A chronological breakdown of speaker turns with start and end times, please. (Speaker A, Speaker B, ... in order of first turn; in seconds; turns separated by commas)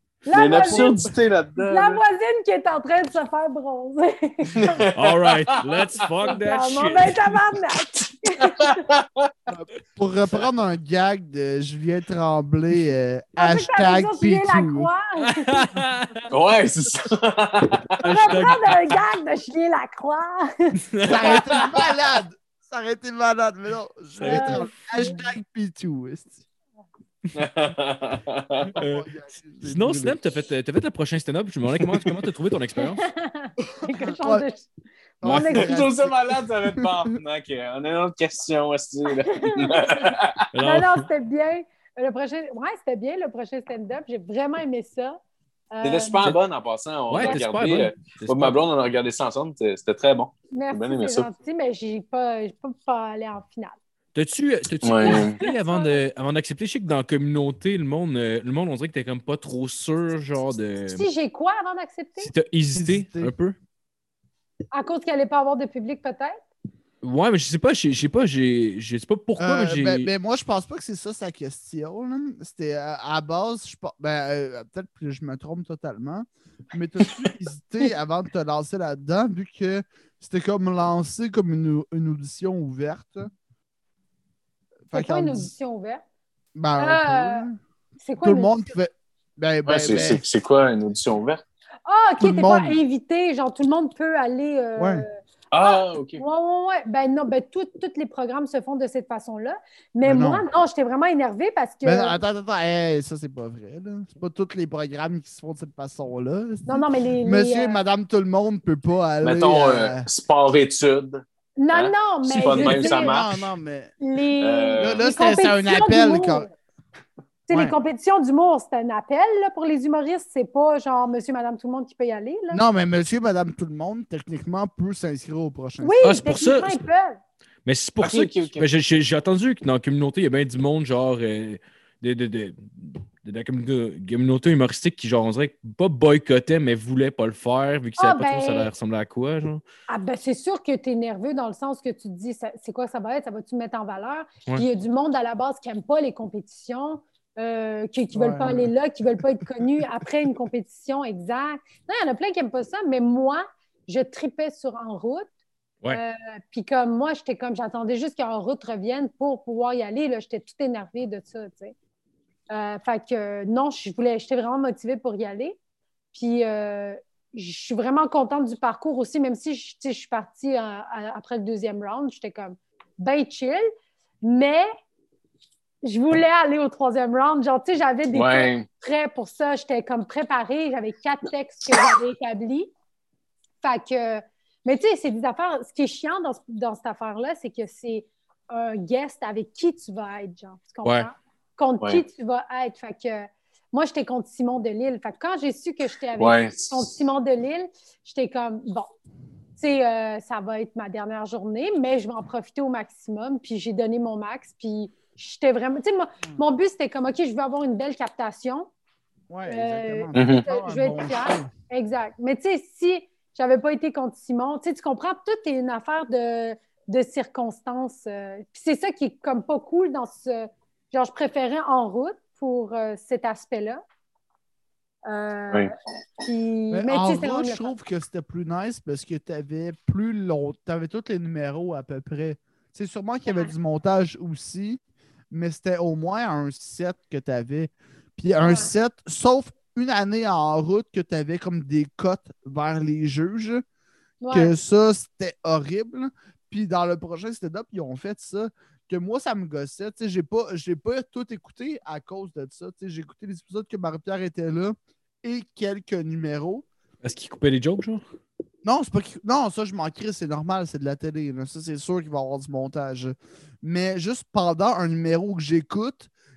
Speaker A: 0.3-1.1, Speaker B: 0.3-2.0, Speaker A: 1.6-4.8, Speaker B: 4.6-6.3, Speaker C: 5.0-7.4, Speaker A: 6.2-8.9, Speaker B: 8.6-9.3, Speaker D: 9.5-14.9, Speaker A: 13.4-15.6, Speaker C: 15.2-16.3, Speaker B: 16.3-18.0, Speaker C: 18.0-19.0, Speaker A: 18.0-20.8, Speaker C: 20.9-21.6, Speaker D: 21.1-26.4, Speaker B: 21.6-21.9, Speaker C: 24.2-24.7, Speaker A: 24.2-25.2, Speaker B: 27.3-28.7, Speaker C: 28.7-29.1, Speaker D: 28.7-30.2, Speaker C: 29.6-33.1, Speaker A: 33.0-34.7, Speaker D: 33.8-34.5, Speaker A: 35.2-35.8, Speaker D: 35.2-37.0, Speaker B: 35.5-40.5, Speaker A: 39.3-45.2, Speaker C: 40.5-41.0, Speaker A: 45.7-46.2, Speaker B: 45.8-51.3, Speaker C: 47.1-48.6, Speaker A: 50.5-53.8, Speaker C: 54.1-61.1, Speaker B: 54.8-55.4, Speaker A: 55.0-56.0, Speaker A: 60.9-62.3, Speaker C: 62.2-63.5, Speaker D: 62.7-63.3, Speaker A: 64.7-66.4, Speaker C: 67.0-70.1, Speaker D: 69.4-83.3, Speaker D: 84.9-85.5, Speaker A: 84.9-86.0, Speaker D: 86.5-87.6, Speaker A: 86.8-87.5, Speaker A: 88.0-88.7, Speaker D: 88.2-90.2, Speaker B: 89.7-91.4, Speaker A: 91.9-102.2, Speaker D: 92.2-92.8, Speaker D: 94.8-95.0, Speaker B: 95.5-96.2, Speaker D: 100.0-100.4, Speaker D: 101.8-110.1, Speaker A: 106.7-107.8, Speaker B: 109.2-113.5, Speaker A: 111.6-113.2, Speaker D: 112.5-113.9, Speaker A: 114.0-116.5, Speaker B: 114.4-115.0, Speaker D: 114.8-116.5, Speaker A: 117.5-122.6, Speaker D: 122.5-126.0, Speaker A: 125.8-127.2, Speaker C: 126.0-126.8, Speaker C: 127.6-139.6, Speaker B: 128.0-128.7, Speaker A: 138.0-138.7, Speaker A: 139.9-155.3, Speaker D: 148.1-148.7, Speaker A: 155.9-161.7, Speaker A: 162.5-165.6, Speaker A: 166.1-173.6, Speaker A: 174.2-174.7, Speaker A: 175.8-182.7, Speaker B: 178.1-178.7, Speaker A: 183.6-198.9, Speaker C: 190.8-191.1, Speaker B: 196.2-196.9, Speaker A: 199.6-208.7, Speaker D: 209.3-211.5, Speaker A: 209.5-223.8, Speaker B: 210.1-210.4, Speaker A: 225.1-227.7, Speaker D: 226.7-234.8, Speaker D: 235.3-243.6, Speaker A: 238.4-238.7, Speaker A: 244.2-244.5, Speaker D: 244.3-256.7, Speaker C: 257.0-258.0, Speaker D: 258.6-266.1